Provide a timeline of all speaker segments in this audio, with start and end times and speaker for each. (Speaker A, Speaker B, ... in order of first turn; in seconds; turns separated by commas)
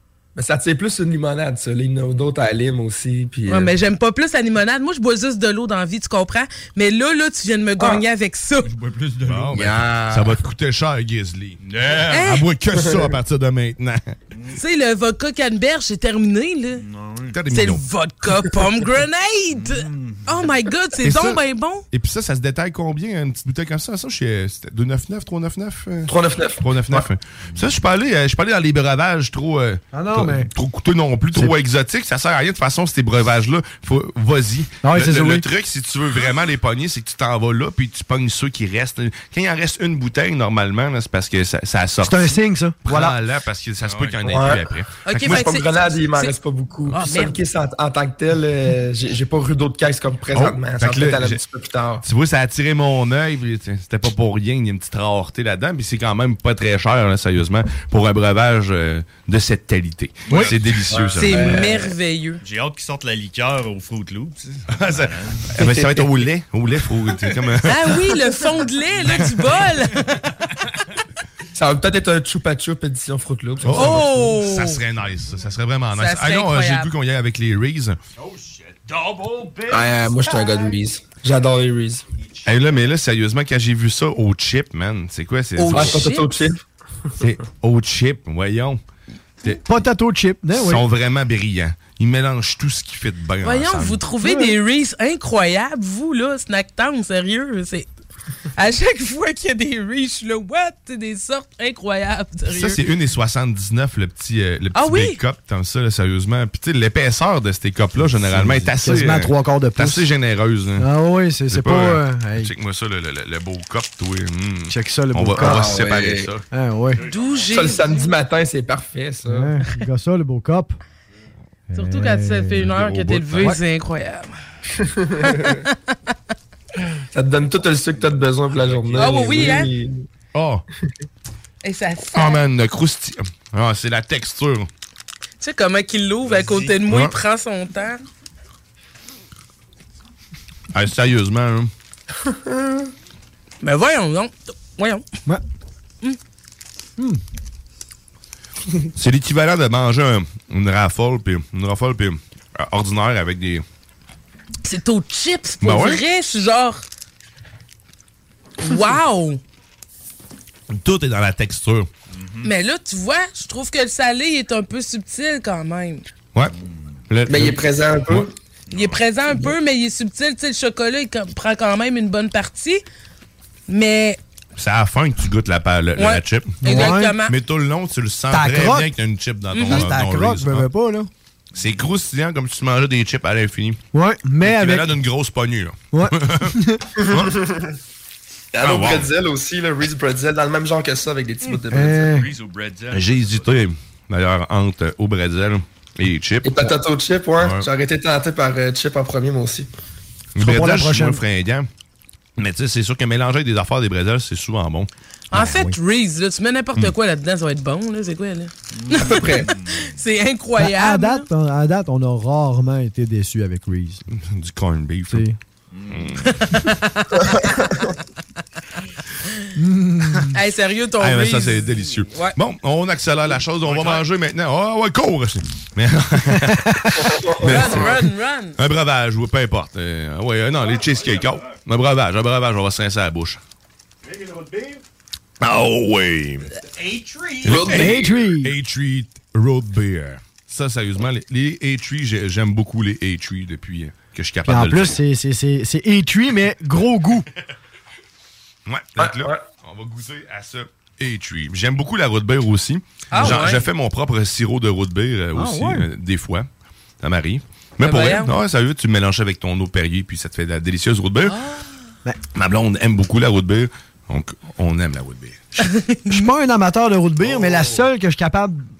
Speaker A: 0.3-3.7, Speaker B: 3.5-8.7, Speaker C: 8.6-10.0, Speaker D: 9.3-11.6, Speaker A: 9.6-10.3, Speaker C: 11.6-12.3, Speaker B: 12.1-12.5, Speaker D: 12.1-14.2, Speaker A: 12.8-13.1, Speaker B: 14.6-16.8, Speaker C: 16.8-17.4, Speaker D: 17.3-17.8, Speaker B: 17.5-21.9, Speaker C: 19.6-20.6, Speaker D: 21.0-45.3, Speaker A: 26.1-27.0, Speaker E: 29.9-30.5, Speaker E: 34.8-35.4, Speaker E: 42.0-43.1, Speaker C: 43.8-44.6, Speaker A: 44.3-44.6, Speaker B: 45.1-47.4, Speaker A: 45.2-52.0, Speaker D: 50.3-51.4, Speaker D: 52.0-61.9, Speaker C: 60.3-61.8, Speaker B: 61.1-62.4, Speaker C: 62.4-65.6, Speaker D: 64.8-68.0, Speaker C: 67.1-67.4, Speaker B: 67.7-70.2, Speaker A: 71.6-73.9, Speaker D: 73.6-78.0, Speaker B: 73.7-74.8, Speaker C: 75.2-75.5, Speaker B: 75.9-76.9, Speaker C: 78.2-80.6, Speaker A: 79.7-82.0, Speaker D: 82.5-86.2, Speaker B: 85.6-86.3, Speaker A: 85.8-86.6, Speaker D: 87.2-88.8, Speaker E: 89.7-90.8, Speaker D: 90.5-94.0, Speaker B: 93.4-97.9, Speaker E: 94.2-94.5, Speaker B: 98.6-102.8, Speaker D: 102.5-110.9, Speaker B: 104.7-105.2, Speaker E: 108.2-110.0, Speaker E: 110.8-112.5, Speaker D: 111.5-116.4, Speaker E: 114.7-115.8, Speaker A: 115.4-116.3, Speaker E: 116.5-117.0, Speaker C: 117.0-118.1, Speaker B: 117.1-117.8, Speaker A: 117.5-119.5, Speaker E: 119.3-120.8, Speaker E: 121.7-122.6, Speaker B: 121.7-124.4, Speaker D: 122.6-123.5, Speaker A: 124.8-125.3, Speaker B: 125.2-125.7, Speaker A: 127.1-130.0, Speaker C: 128.0-129.1, Speaker B: 128.9-129.7, Speaker D: 130.3-130.6, Speaker B: 131.6-132.4, Speaker D: 132.1-134.7, Speaker B: 135.4-138.0, Speaker C: 136.3-136.8, Speaker D: 136.8-137.2, Speaker D: 140.7-141.7, Speaker B: 143.6-145.0, Speaker D: 148.9-153.6, Speaker B: 154.6-156.8, Speaker D: 155.6-156.1, Speaker B: 158.6-159.4, Speaker D: 160.7-161.9, Speaker C: 162.1-162.5, Speaker B: 162.4-166.1, Speaker D: 167.1-168.3, Speaker A: 167.3-168.3, Speaker C: 168.7-169.0, Speaker B: 168.7-172.8, Speaker B: 173.7-174.2, Speaker D: 174.6-180.7, Speaker B: 176.0-177.3, Speaker E: 176.6-177.2, Speaker E: 178.3-178.9, Speaker B: 179.5-179.9, Speaker E: 179.7-181.1, Speaker D: 181.6-183.8, Speaker E: 183.9-184.9, Speaker D: 184.4-186.5, Speaker E: 185.9-186.8, Speaker A: 187.1-187.6, Speaker D: 187.1-187.3, Speaker A: 188.5-191.9, Speaker D: 188.6-189.1, Speaker E: 191.7-192.3, Speaker C: 191.8-193.6, Speaker D: 192.9-196.7, Speaker A: 196.4-199.7, Speaker D: 197.4-197.7, Speaker D: 200.3-201.7, Speaker E: 200.4-201.2, Speaker D: 202.4-204.9, Speaker B: 205.3-211.3, Speaker E: 205.3-205.7, Speaker C: 208.7-209.7, Speaker A: 209.0-209.5, Speaker E: 210.6-214.0, Speaker D: 214.1-215.3, Speaker E: 215.1-215.4, Speaker C: 215.7-216.2, Speaker D: 215.9-216.3, Speaker B: 216.3-217.5, Speaker E: 219.6-220.3, Speaker B: 220.3-222.3, Speaker D: 221.0-228.0, Speaker C: 223.6-224.1, Speaker E: 226.7-227.0, Speaker A: 227.1-227.9, Speaker B: 227.4-228.6, Speaker D: 228.6-233.4, Speaker C: 230.7-231.6, Speaker C: 234.1-234.8, Speaker D: 235.4-236.5, Speaker C: 236.7-238.1, Speaker D: 237.4-245.0, Speaker A: 237.5-237.8, Speaker E: 237.5-238.5, Speaker E: 244.5-247.2, Speaker D: 248.7-256.5, Speaker A: 249.0-249.4, Speaker B: 253.1-253.7, Speaker E: 255.3-255.8, Speaker D: 257.0-261.4, Speaker B: 257.8-258.3, Speaker B: 261.2-261.6, Speaker D: 262.4-265.7, Speaker B: 265.6-266.0, Speaker E: 266.1-268.7, Speaker C: 267.2-267.8, Speaker D: 267.3-267.6